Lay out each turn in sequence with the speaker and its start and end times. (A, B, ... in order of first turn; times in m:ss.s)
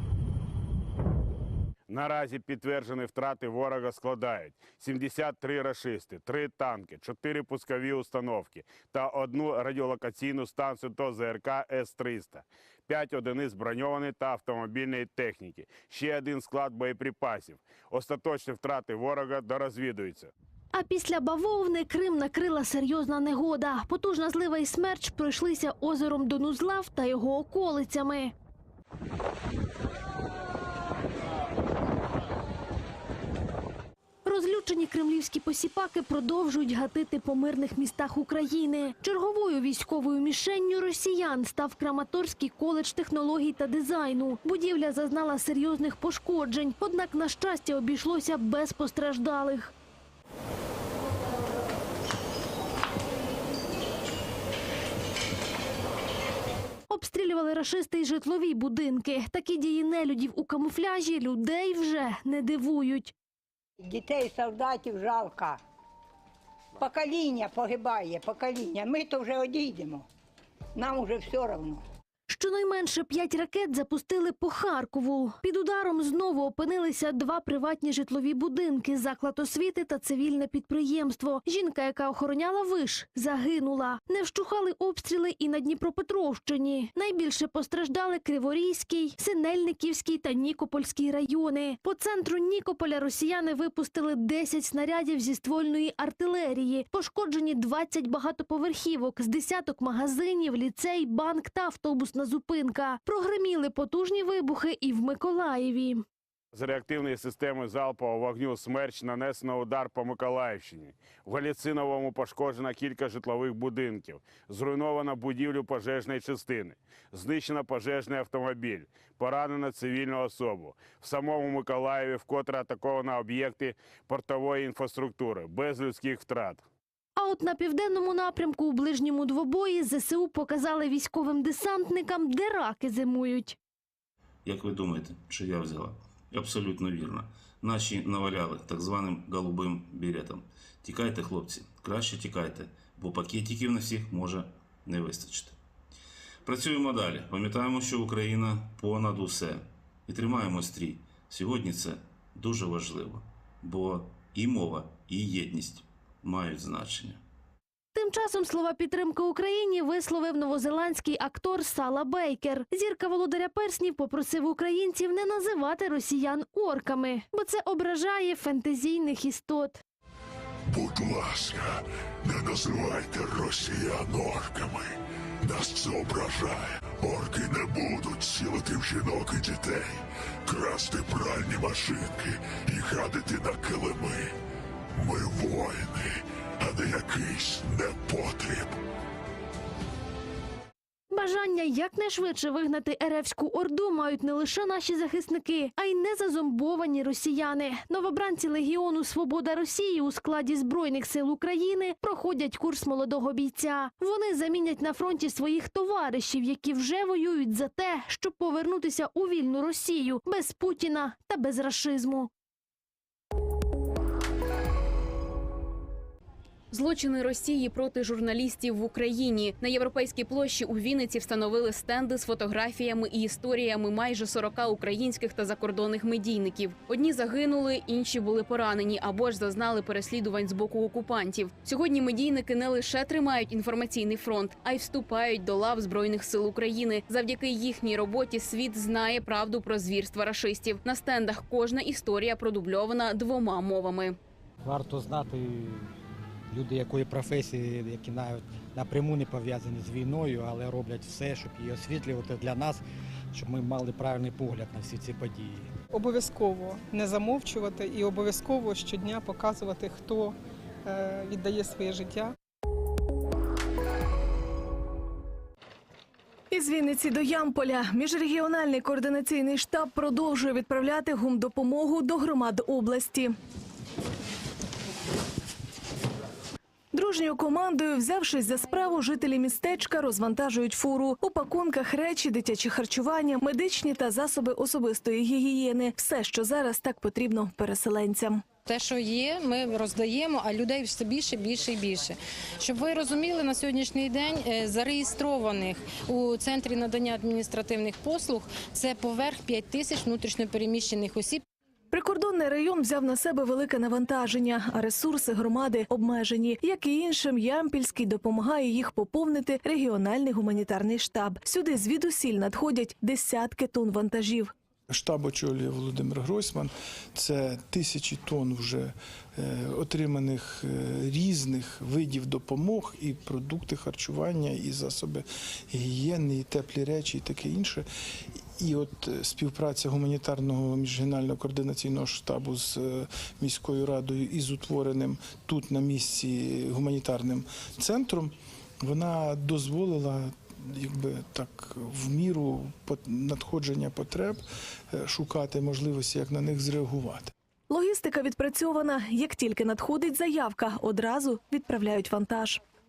0:01.9-0:20.3 A
0:20.7-0:28.3 B
0:34.2-0:49.7 B
0:56.9-1:03.1 B
1:03.8-1:05.6 C
1:06.8-1:10.0 C
1:10.8-1:11.8 C
1:12.3-1:46.0 B
1:46.5-2:06.6 A
2:07.2-2:13.6 B
2:14.4-2:25.6 D
2:26.4-2:37.2 D
2:37.9-2:49.8 B
2:50.7-3:04.3 E
3:05.0-3:08.8 E
3:11.1-3:32.3 B
3:36.7-4:04.2 F
4:04.6-4:05.9 G
4:06.5-4:15.7 G
4:15.9-4:22.3 H
4:26.5-4:33.3 I
4:36.9-4:48.4 I
4:48.7-5:01.4 J
5:01.9-5:14.5 I
5:14.9-5:27.9 K
5:28.6-5:47.3 K
5:47.7-5:52.6 I